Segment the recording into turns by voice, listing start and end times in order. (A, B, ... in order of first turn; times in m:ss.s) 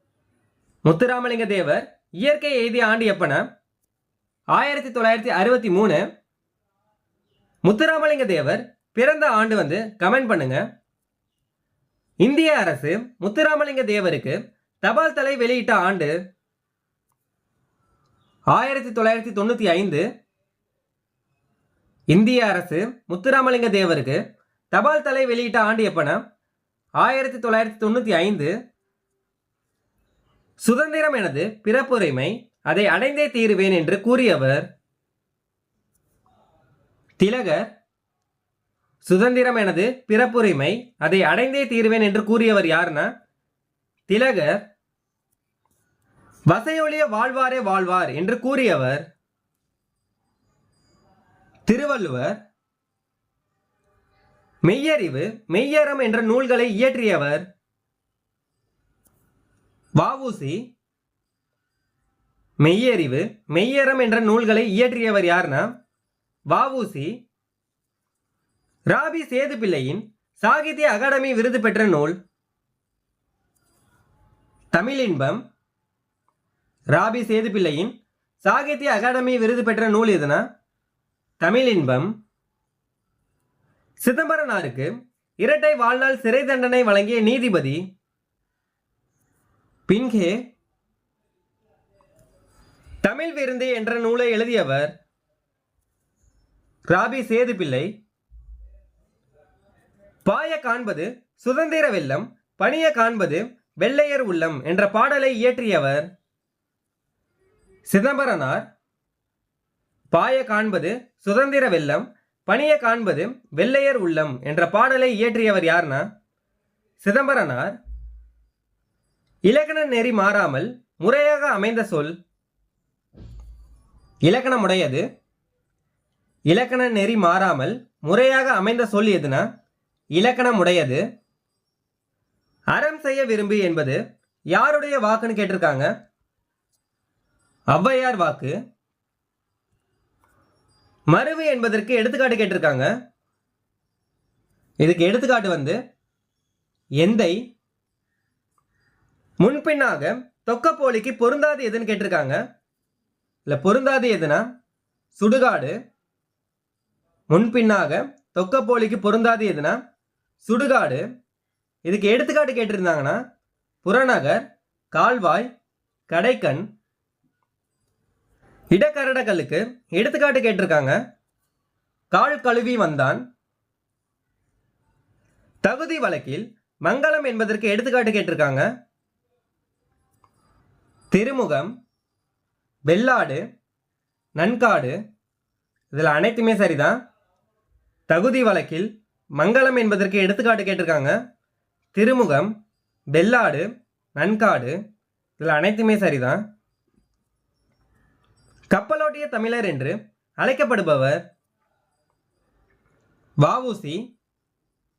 0:00.8-0:03.5 A
0:04.5-0:06.0 A
0:07.6-0:10.6 A
0:12.2-0:16.1 A
0:18.5-0:20.0 A
0:22.1-0:24.2 A
0:24.7-0:26.2 A
0:27.0-0:28.5 A
0:30.6-0:34.7 A
0:37.2-0:37.7 A
0:39.0-0:43.1 A
0:44.1-0:44.6 A
0:46.5-0:49.0 A
0:51.7-0:52.4 A
0:54.6-0:57.5 A
1:00.0-1:00.6 A
1:02.6-1:05.7 A
1:06.5-1:07.2 A
1:08.9-1:12.2 A
1:14.7-1:15.4 A
1:16.9-1:20.4 A
1:21.4-1:22.1 A
1:24.0-1:27.8 A
1:29.9-1:30.4 A
1:33.0-1:34.9 A
1:36.9-1:37.9 A
1:40.2-1:46.1 A
1:47.9-1:48.6 A
1:50.1-1:56.1 A
1:57.0-1:57.8 A
1:59.5-2:02.2 A
2:04.3-2:05.0 A
2:06.5-2:09.5 A
2:10.2-2:11.0 A
2:12.7-2:14.0 A
2:14.5-2:15.9 A
2:17.7-2:18.5 A
2:21.1-2:22.9 A
2:24.8-2:25.8 A
2:27.0-2:27.4 A
2:29.4-2:32.4 A
2:33.5-2:34.5 A
2:35.2-2:35.8 A
2:37.3-2:39.8 A
2:40.4-2:41.0 A
2:41.9-2:43.2 A
2:43.8-2:45.5 A
2:46.1-2:46.6 A
2:48.7-2:51.0 A
2:52.1-2:53.2 A
2:55.6-2:58.7 A
3:01.1-3:01.7 A
3:02.9-3:03.4 A
3:04.4-3:05.0 A
3:05.9-3:07.0 A
3:08.1-3:11.2 A
3:11.9-3:12.5 A
3:13.1-3:14.8 A
3:15.4-3:16.4 A
3:18.7-3:21.2 A
3:23.4-3:24.0 A